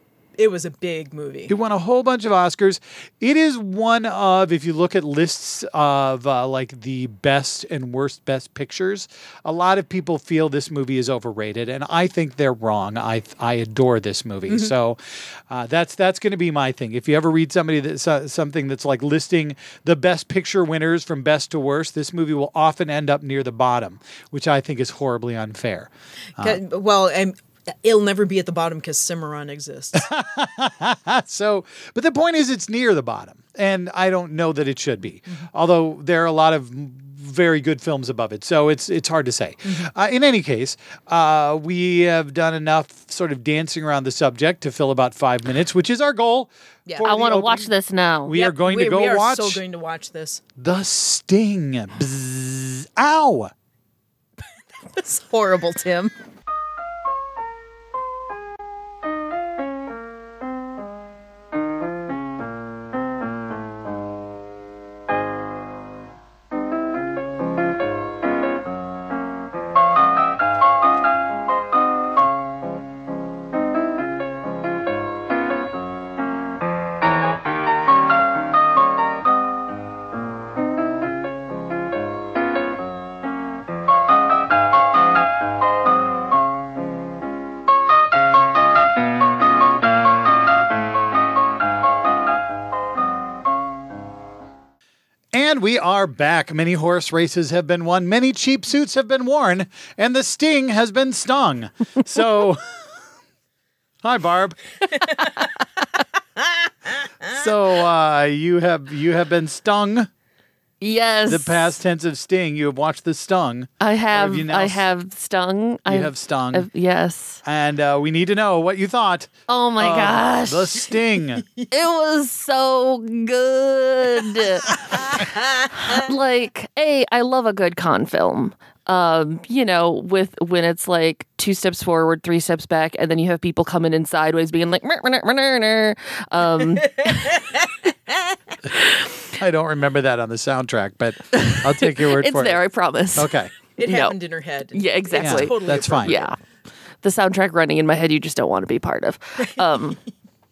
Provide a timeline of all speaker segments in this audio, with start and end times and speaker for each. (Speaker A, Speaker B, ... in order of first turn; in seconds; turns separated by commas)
Speaker A: 0.4-1.6, Speaker B: 1.5-26.6, Speaker A: 14.5-14.7, Speaker A: 26.4-30.1, Speaker B: 29.9-47.7, Speaker A: 39.6-39.9, Speaker A: 46.9-47.1, Speaker C: 47.0-48.4, Speaker B: 48.2-49.6, Speaker A: 48.3-50.4, Speaker B: 50.6-53.5, Speaker A: 54.8-56.1, Speaker B: 95.3-102.6, Speaker B: 104.0-105.0, Speaker A: 107.0-107.4, Speaker B: 107.3-110.1, Speaker C: 110.8-111.8, Speaker B: 111.3-114.8, Speaker C: 113.8-117.4, Speaker B: 115.9-116.7, Speaker B: 117.5-121.5, Speaker C: 119.5-120.9, Speaker C: 121.7-137.4, Speaker A: 124.7-126.1, Speaker A: 136.7-138.4, Speaker B: 139.3-142.6, Speaker C: 141.3-144.2, Speaker B: 143.2-143.5, Speaker A: 143.8-146.3, Speaker C: 144.7-146.3, Speaker B: 145.2-146.2, Speaker C: 147.0-150.0